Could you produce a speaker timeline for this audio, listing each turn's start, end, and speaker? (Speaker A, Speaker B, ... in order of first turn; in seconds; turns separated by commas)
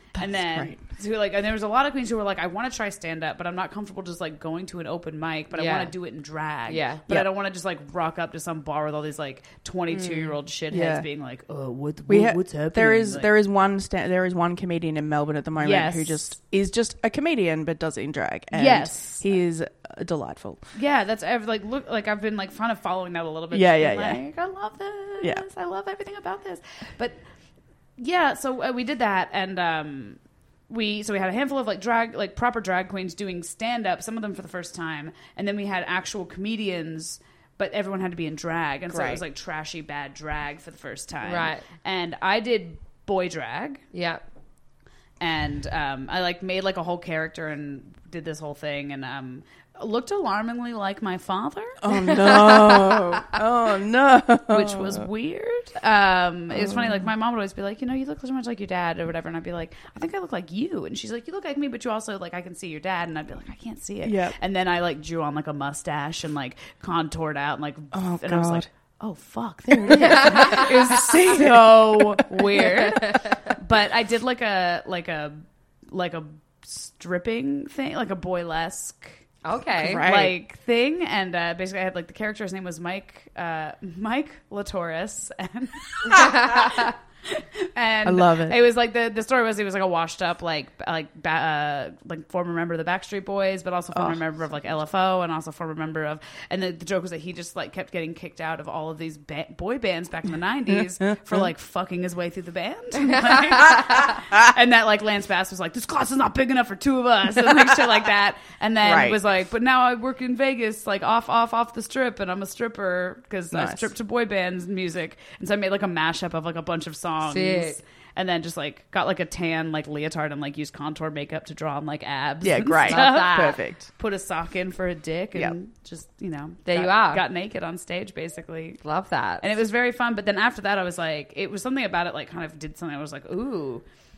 Speaker A: 0.1-0.8, Speaker B: 0.2-13.3, Speaker C: 5.5-5.9, Speaker C: 6.7-7.0, Speaker C: 9.9-10.4, Speaker A: 10.7-11.1, Speaker A: 12.1-20.6, Speaker B: 15.6-16.3, Speaker B: 18.5-19.3, Speaker B: 20.7-27.2, Speaker A: 23.5-24.2, Speaker B: 28.0-30.2, Speaker B: 30.7-43.8, Speaker A: 38.9-39.2, Speaker C: 41.2-41.6, Speaker C: 43.9-44.2, Speaker B: 45.2-51.8, Speaker A: 51.8-55.0, Speaker C: 52.1-53.0, Speaker B: 54.5-79.2, Speaker A: 56.5-57.0, Speaker A: 64.0-64.3, Speaker A: 67.9-68.7, Speaker A: 69.7-72.3, Speaker C: 69.9-70.6, Speaker C: 73.0-73.3, Speaker C: 79.4-80.0, Speaker A: 79.8-80.4, Speaker B: 80.0-128.8, Speaker C: 86.1-86.7, Speaker A: 88.0-88.6, Speaker A: 93.9-94.2, Speaker A: 100.7-101.5, Speaker A: 108.8-109.2, Speaker A: 113.5-113.8, Speaker C: 117.2-117.8, Speaker A: 122.4-123.9, Speaker C: 122.9-123.6, Speaker C: 126.7-127.2, Speaker C: 128.8-129.4, Speaker B: 129.4-133.8